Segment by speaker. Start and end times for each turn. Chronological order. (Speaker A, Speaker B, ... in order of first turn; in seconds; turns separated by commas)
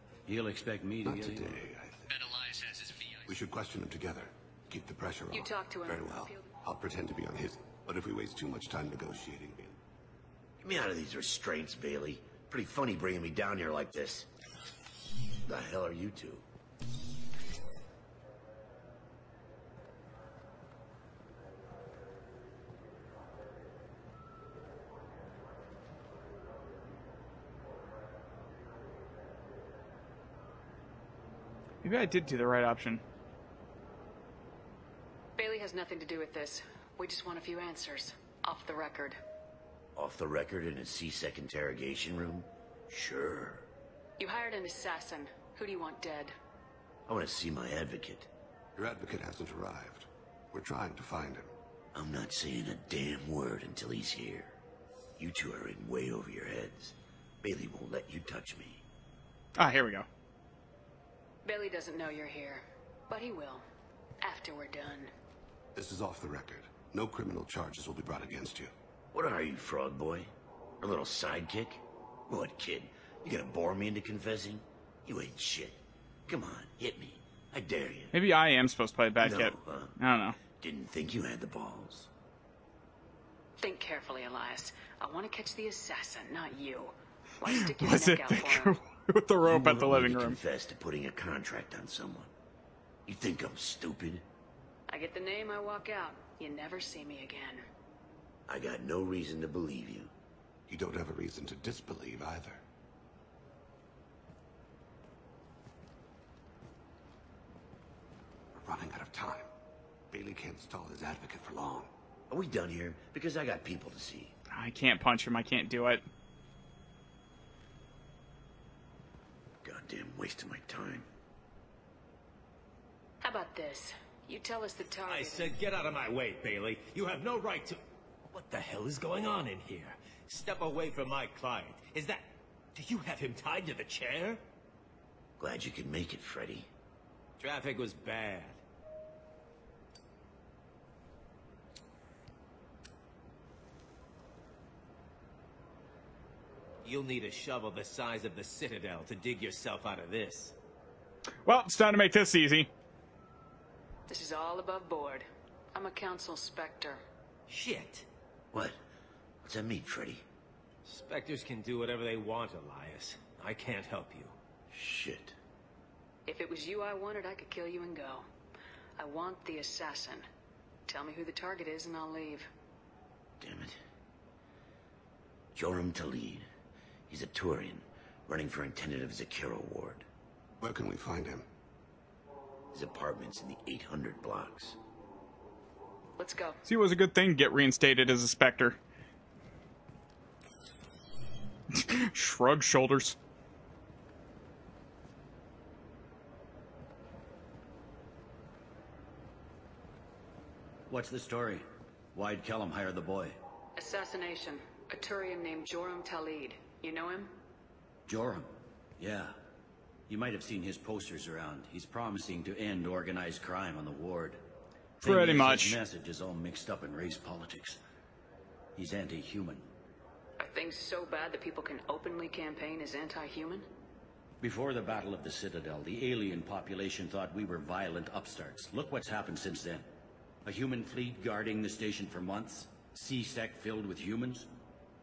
Speaker A: 0.3-1.6, Speaker B: 1.0-2.1, Speaker B: 3.2-9.8, Speaker C: 5.3-6.5, Speaker D: 10.6-14.3, Speaker D: 15.4-16.4, Speaker E: 31.8-33.0, Speaker C: 35.4-39.2, Speaker D: 40.0-43.6, Speaker C: 44.2-46.3, Speaker D: 47.1-48.3, Speaker B: 48.8-51.5, Speaker D: 51.9-54.5, Speaker D: 55.2-58.8, Speaker E: 59.6-60.1, Speaker C: 61.4-63.6, Speaker C: 64.2-65.1, Speaker B: 65.7-68.7, Speaker D: 69.1-70.3, Speaker D: 70.8-78.2, Speaker E: 78.1-80.4, Speaker D: 79.2-80.0, Speaker D: 80.5-82.1, Speaker C: 83.6-88.8, Speaker E: 87.5-90.4, Speaker D: 89.4-92.3, Speaker D: 93.0-94.2, Speaker C: 94.9-97.6, Speaker D: 98.5-100.1, Speaker B: 100.7-102.6, Speaker B: 108.5-109.5, Speaker B: 110.1-111.9, Speaker D: 112.3-114.3, Speaker E: 114.5-116.0, Speaker D: 119.6-121.1, Speaker C: 123.2-125.5, Speaker F: 125.1-134.4, Speaker D: 135.4-136.7, Speaker F: 137.4-138.6, Speaker F: 146.8-150.5, Speaker E: 151.4-152.7, Speaker C: 154.1-157.0, Speaker F: 157.5-158.1, Speaker D: 158.5-158.8, Speaker D: 159.4-160.2, Speaker F: 160.8-164.3, Speaker D: 164.7-165.4, Speaker C: 166.2-168.2, Speaker C: 169.0-170.2, Speaker C: 170.9-172.5, Speaker D: 173.4-173.8, Speaker D: 175.5-176.5, Speaker D: 177.1-180.1, Speaker B: 180.6-181.5, Speaker D: 182.7-184.8, Speaker C: 186.2-186.6, Speaker E: 186.6-188.8, Speaker E: 191.7-193.2, Speaker A: 200.9-203.3, Speaker C: 203.8-207.3, Speaker A: 208.1-209.3, Speaker A: 210.1-214.4, Speaker A: 215.0-217.8, Speaker E: 215.0-215.8, Speaker A: 218.8-219.7, Speaker C: 220.4-223.7, Speaker A: 224.4-229.8, Speaker A: 230.4-234.5